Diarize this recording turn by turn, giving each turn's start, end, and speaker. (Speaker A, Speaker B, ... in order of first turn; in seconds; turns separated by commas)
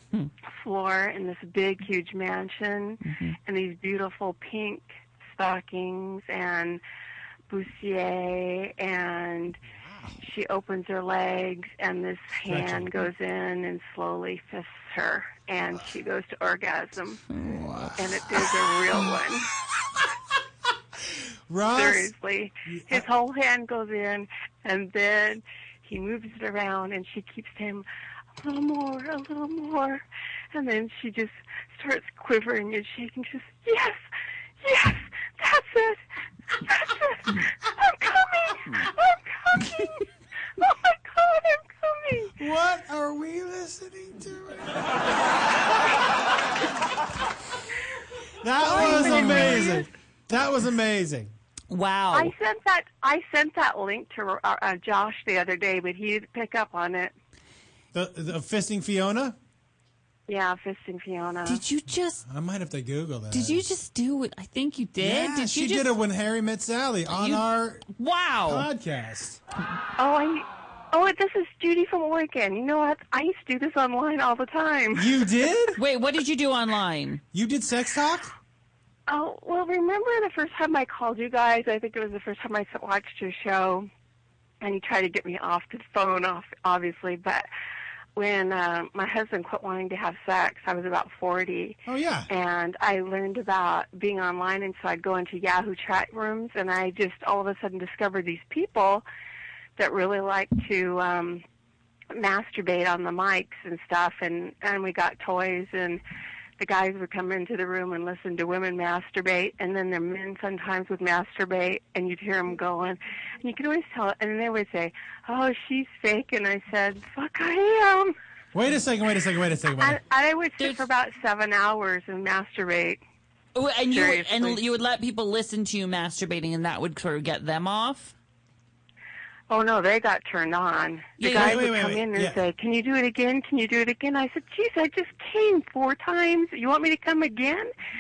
Speaker A: 0.5-6.8, Speaker B: 3.0-3.4, Speaker A: 7.5-9.6, Speaker C: 9.7-10.2, Speaker A: 10.2-17.2, Speaker C: 12.5-12.9, Speaker C: 17.4-18.0, Speaker A: 18.0-19.5, Speaker C: 21.5-22.1, Speaker A: 21.8-27.9, Speaker C: 22.7-23.0, Speaker A: 28.4-34.0, Speaker A: 34.6-36.0, Speaker A: 36.6-40.0, Speaker A: 40.6-42.3, Speaker C: 42.4-45.0, Speaker C: 48.4-51.3, Speaker A: 48.6-49.9, Speaker B: 48.7-49.7, Speaker B: 51.7-52.3, Speaker A: 52.1-57.1, Speaker C: 57.9-59.4, Speaker A: 60.3-61.6, Speaker B: 61.5-62.2, Speaker C: 62.3-63.6, Speaker B: 63.3-66.0, Speaker C: 65.0-67.8, Speaker B: 67.1-68.7, Speaker C: 68.5-69.4, Speaker A: 70.0-75.0, Speaker C: 75.0-75.8, Speaker B: 75.8-77.2, Speaker C: 77.3-78.3, Speaker A: 79.1-83.9, Speaker A: 84.6-87.5, Speaker A: 88.2-91.8, Speaker C: 91.9-92.3, Speaker A: 92.3-99.0, Speaker A: 99.8-101.4, Speaker A: 102.1-106.0, Speaker A: 106.6-118.2, Speaker C: 118.5-120.0, Speaker A: 119.8-123.0, Speaker B: 120.6-120.9, Speaker B: 123.5-128.1, Speaker A: 123.9-124.6, Speaker A: 129.5-137.7, Speaker B: 131.2-131.7, Speaker C: 131.2-132.4